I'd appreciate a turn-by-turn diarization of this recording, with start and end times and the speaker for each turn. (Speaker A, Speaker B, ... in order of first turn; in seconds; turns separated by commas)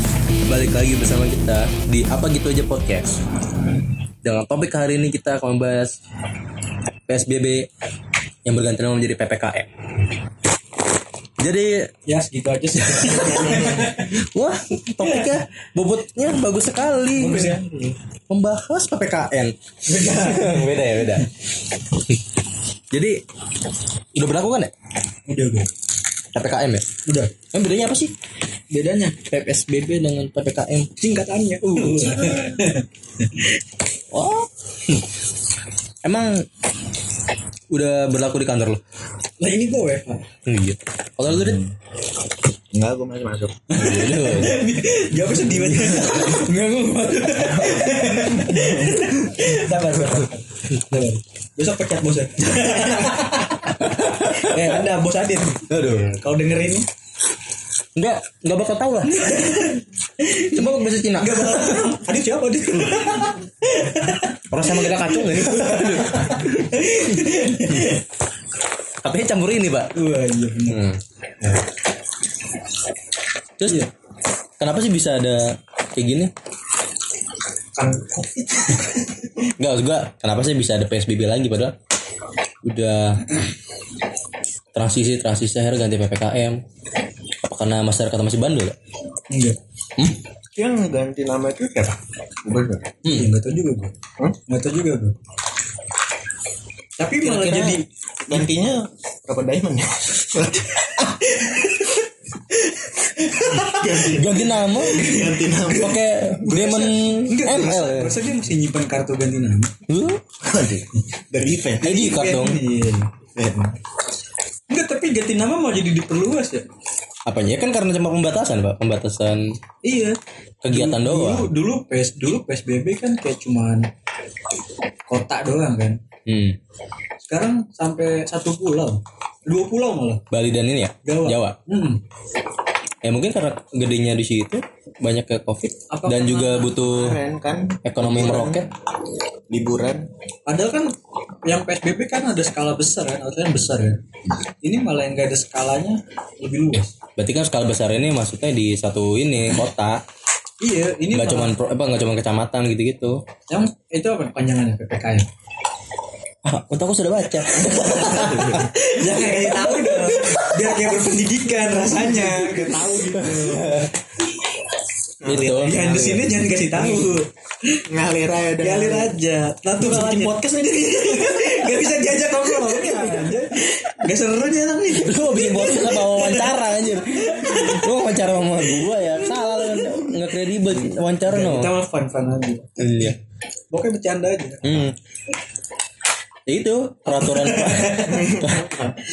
Speaker A: 0.5-3.2, Speaker A: 4.2-6.0, Speaker A: 7.1-7.7, Speaker A: 8.4-9.7, Speaker A: 11.4-11.9, Speaker B: 12.1-14.1, Speaker A: 12.8-17.6, Speaker C: 13.4-13.8, Speaker B: 15.0-15.3, Speaker B: 17.1-17.9, Speaker A: 18.3-21.3, Speaker B: 19.9-20.5, Speaker A: 22.9-23.2, Speaker A: 24.1-24.7, Speaker B: 25.3-25.7, Speaker A: 26.3-26.9, Speaker B: 27.1-27.3, Speaker A: 27.5-28.1, Speaker B: 28.7-29.2, Speaker A: 29.2-30.9, Speaker B: 31.0-33.5, Speaker A: 31.8-32.7, Speaker A: 34.1-35.0, Speaker A: 36.0-36.5, Speaker A: 37.7-38.8, Speaker B: 39.4-40.2, Speaker A: 40.4-41.6, Speaker C: 41.3-41.7, Speaker C: 42.7-43.8, Speaker B: 43.7-56.9, Speaker A: 43.7-44.6, Speaker C: 47.6-49.0, Speaker A: 53.8-54.8, Speaker A: 55.7-56.2, Speaker A: 57.9-59.6, Speaker B: 59.1-68.0, Speaker A: 60.5-61.9, Speaker A: 64.5-66.8, Speaker A: 69.0-69.9, Speaker B: 69.9-70.8, Speaker A: 70.7-71.0, Speaker A: 73.6-73.8, Speaker A: 74.6-76.3, Speaker B: 77.8-78.1, Speaker A: 79.6-81.8, Speaker A: 82.6-83.4, Speaker A: 84.7-86.6, Speaker A: 87.4-88.7, Speaker B: 89.3-89.6, Speaker C: 90.5-92.9, Speaker A: 93.0-93.3, Speaker B: 93.1-93.9, Speaker B: 94.5-95.2, Speaker B: 97.0-98.4, Speaker C: 97.2-101.0, Speaker B: 101.2-105.7, Speaker C: 103.4-106.2, Speaker A: 104.1-105.0, Speaker A: 105.7-108.2, Speaker B: 106.4-109.7, Speaker A: 109.9-110.2, Speaker C: 110.4-112.0, Speaker A: 111.8-112.6, Speaker B: 111.8-113.1, Speaker C: 113.3-113.8, Speaker B: 114.7-116.6, Speaker A: 117.2-119.4, Speaker B: 119.8-120.2, Speaker A: 120.6-121.5, Speaker B: 120.7-123.9, Speaker B: 125.1-126.0, Speaker A: 126.2-126.6, Speaker B: 127.2-130.2, Speaker A: 130.3-131.6, Speaker B: 131.0-132.0, Speaker A: 133.0-137.2, Speaker B: 135.9-136.8, Speaker C: 136.8-138.7, Speaker A: 137.8-138.7, Speaker C: 139.5-140.1, Speaker B: 140.5-140.9, Speaker B: 141.4-144.0, Speaker B: 144.6-146.9, Speaker A: 147.2-150.0, Speaker B: 150.6-151.5, Speaker A: 151.1-153.2, Speaker B: 153.5-155.3, Speaker A: 156.4-161.0, Speaker C: 157.6-158.7, Speaker B: 158.5-163.9, Speaker A: 162.8-163.9, Speaker C: 165.2-166.5, Speaker A: 165.2-165.9, Speaker B: 165.3-177.9, Speaker A: 166.8-167.1, Speaker C: 167.9-169.2, Speaker C: 169.8-170.4, Speaker A: 174.9-181.7, Speaker B: 178.8-180.1, Speaker B: 180.7-182.8, Speaker A: 182.8-183.2, Speaker B: 183.7-184.7, Speaker A: 184.6-184.9, Speaker A: 186.5-188.7, Speaker B: 187.1-188.4, Speaker C: 188.1-188.9